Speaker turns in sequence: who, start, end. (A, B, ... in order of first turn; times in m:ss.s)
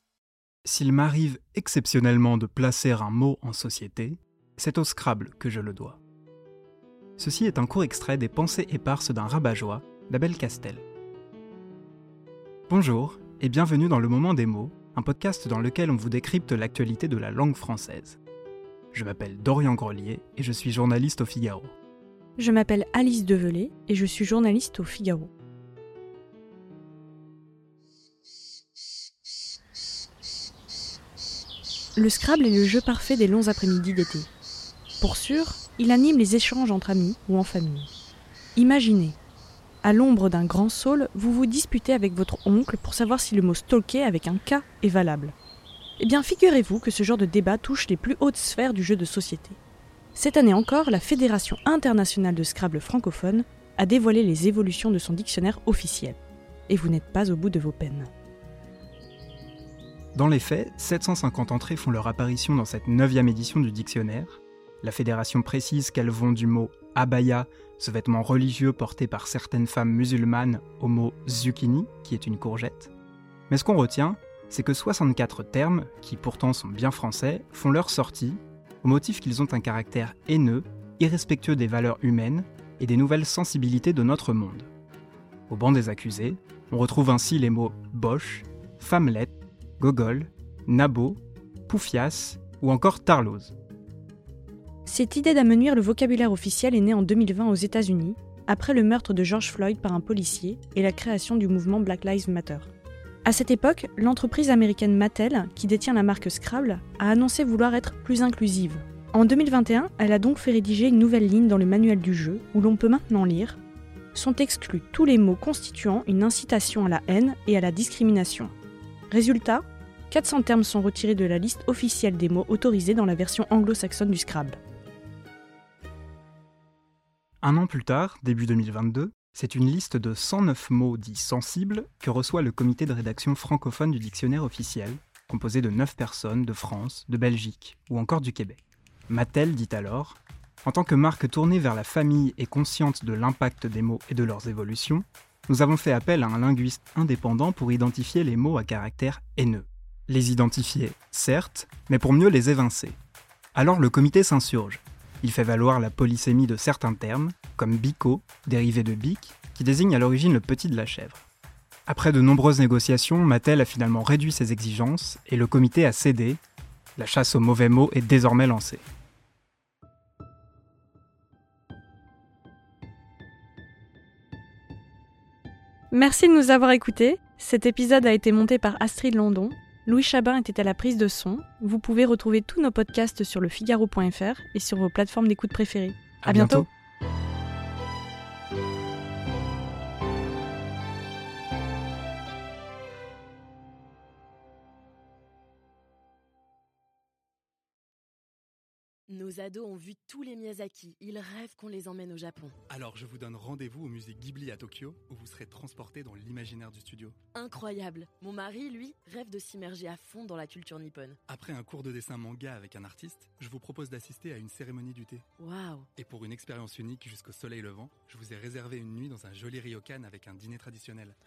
0:00.6-0:06.0 A
0:07.2-0:10.8 A
0:12.7-0:18.2 A
0:18.9-0:21.7 A
0:22.4-0:25.3 B
0:32.0-0:34.3 B
0:35.0-0:37.9 B
0:38.6-0:39.2 B
0:39.8-0:45.3 B
0:46.0-0:49.6 B
0:50.1-0:56.2 B
0:56.7-0:58.1 B
1:00.1-1:12.9 A
1:13.5-1:24.7 A
1:25.5-1:33.5 A
1:34.8-1:42.7 B
1:43.2-1:53.6 B
1:54.1-1:58.5 B
1:59.1-2:04.6 B
2:07.4-2:33.0 A
2:33.5-2:41.3 A
2:41.9-2:46.4 A
2:47.0-2:48.8 A
2:55.9-3:06.6 B
3:06.2-3:06.7 A
3:19.1-3:22.6 C
3:22.7-3:27.1 D
3:27.3-3:31.2 C
3:31.3-3:35.2 D
3:35.4-3:35.9 C
3:36.0-3:41.1 D